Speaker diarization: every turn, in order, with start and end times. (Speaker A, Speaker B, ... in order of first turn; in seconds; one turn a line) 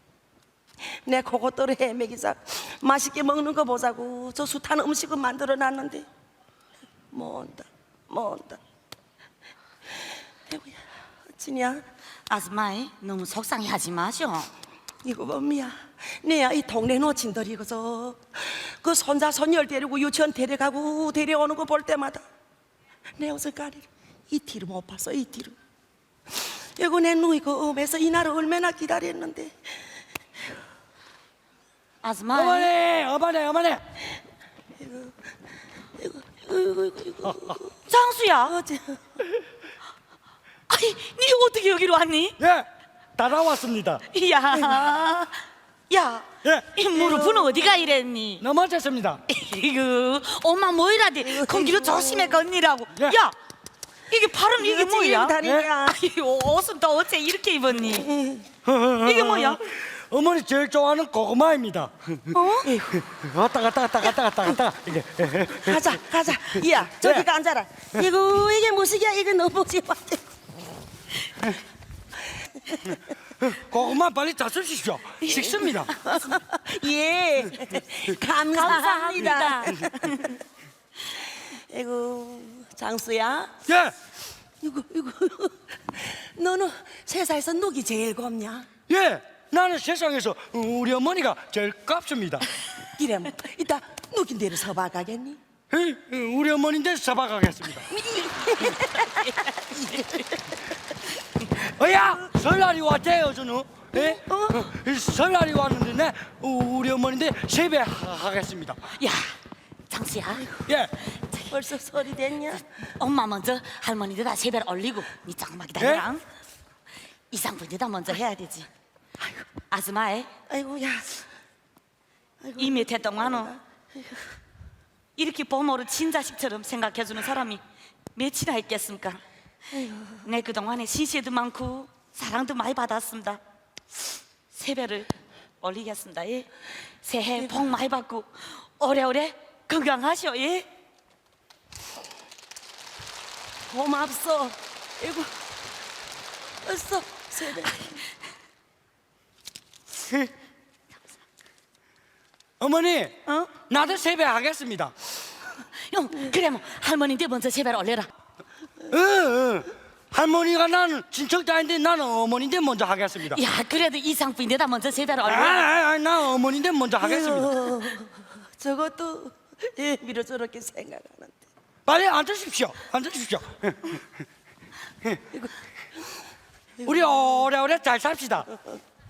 Speaker A: 0.8-6.1
Speaker A: 7.1-8.6
Speaker A: 10.5-10.8
Speaker A: 11.3-11.8
Speaker B: 12.3-14.5
Speaker A: 15.0-22.2
Speaker A: 23.2-25.6
Speaker A: 26.8-29.6
Speaker B: 32.0-32.7
Speaker C: 32.3-33.8
Speaker A: 34.8-35.1
Speaker A: 36.0-37.7
Speaker C: 37.3-37.5
Speaker B: 37.9-38.5
Speaker A: 38.5-39.1
Speaker B: 40.7-42.4
Speaker C: 42.4-42.7
Speaker C: 43.2-44.0
Speaker B: 44.1-45.3
Speaker B: 45.9-48.4
Speaker C: 46.4-46.7
Speaker A: 46.9-47.7
Speaker C: 48.4-49.2
Speaker B: 49.3-53.3
Speaker A: 51.2-52.4
Speaker B: 54.1-58.1
Speaker A: 54.5-56.0
Speaker A: 57.9-58.5
Speaker C: 58.6-62.4
Speaker B: 59.0-59.6
Speaker B: 62.3-62.7
Speaker A: 62.6-63.0
Speaker C: 62.9-66.0
Speaker A: 65.5-70.2
Speaker C: 66.5-67.3
Speaker C: 73.4-75.9
Speaker B: 75.2-75.9
Speaker A: 75.9-80.2
Speaker B: 78.5-80.4
Speaker A: 81.5-83.5
Speaker C: 83.7-83.9
Speaker A: 84.6-88.7
Speaker C: 88.9-92.5
Speaker A: 93.0-95.4
Speaker C: 95.7-97.9
Speaker A: 97.9-100.3
Speaker B: 98.6-100.2
Speaker C: 101.5-108.9
Speaker A: 103.9-104.7
Speaker B: 109.0-109.3
Speaker B: 109.9-110.5
Speaker C: 110.7-110.9
Speaker A: 111.5-112.6
Speaker B: 113.0-116.2
Speaker C: 115.8-116.1
Speaker B: 117.3-118.7
Speaker B: 119.7-120.3
Speaker A: 120.5-121.1
Speaker A: 122.4-124.2
Speaker B: 122.6-123.5
Speaker B: 125.2-127.6
Speaker B: 128.2-129.2
Speaker A: 129.7-130.3
Speaker B: 130.2-133.4
Speaker B: 134.5-135.1
Speaker B: 135.6-136.5
Speaker B: 137.0-140.7
Speaker A: 143.7-145.3
Speaker A: 146.6-147.9
Speaker C: 152.6-154.9
Speaker B: 153.3-153.5
Speaker B: 155.9-158.1
Speaker C: 158.9-163.4
Speaker B: 163.3-165.7
Speaker C: 165.2-167.7
Speaker A: 167.0-171.4
Speaker C: 171.9-174.0
Speaker C: 176.8-178.5